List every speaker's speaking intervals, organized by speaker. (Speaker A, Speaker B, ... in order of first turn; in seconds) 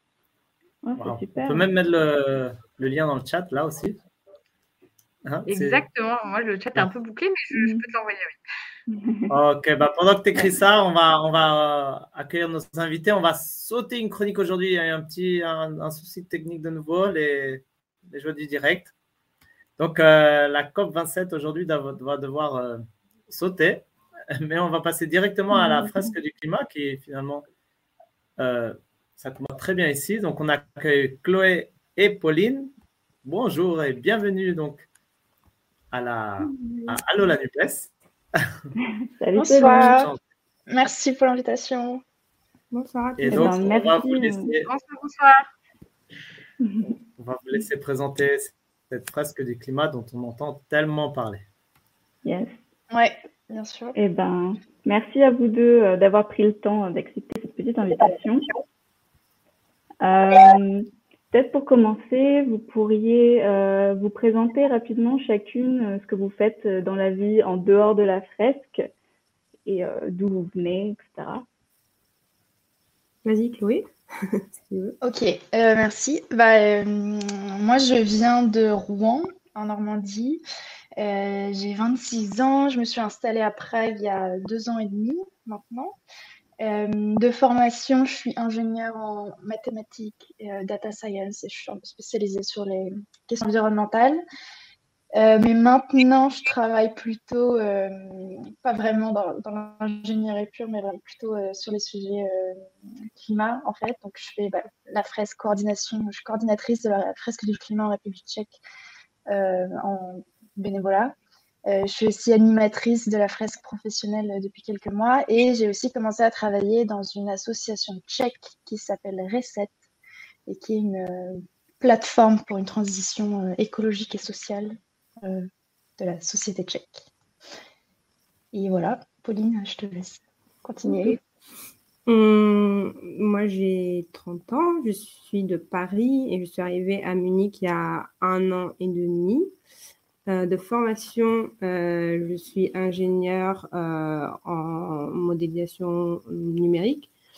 Speaker A: 0.8-1.6, 7.5-7.8, 8.9-9.3, 25.5-26.1, 39.2-39.9, 43.3-44.5, 46.6-47.0, 52.2-52.6, 54.0-58.5, 60.0-68.8, 69.7-71.5
Speaker B: 1.0-4.0, 5.2-5.9, 9.3-18.9, 19.8-27.4, 28.4-32.7, 33.2-34.9, 35.9-38.5, 39.6-40.2, 43.2-44.7, 47.2-51.5
Speaker C: 5.5-8.4, 44.6-45.5
Speaker D: 39.4-40.1, 40.7-42.0, 52.9-54.0, 75.0-80.4, 81.0-86.0, 86.6-94.2, 95.2-102.6, 103.2-108.6, 109.3-111.1, 111.7-119.8, 120.5-127.1, 128.5-131.2
Speaker E: 42.7-43.6, 73.2-75.0, 132.1-139.5, 140.3-147.1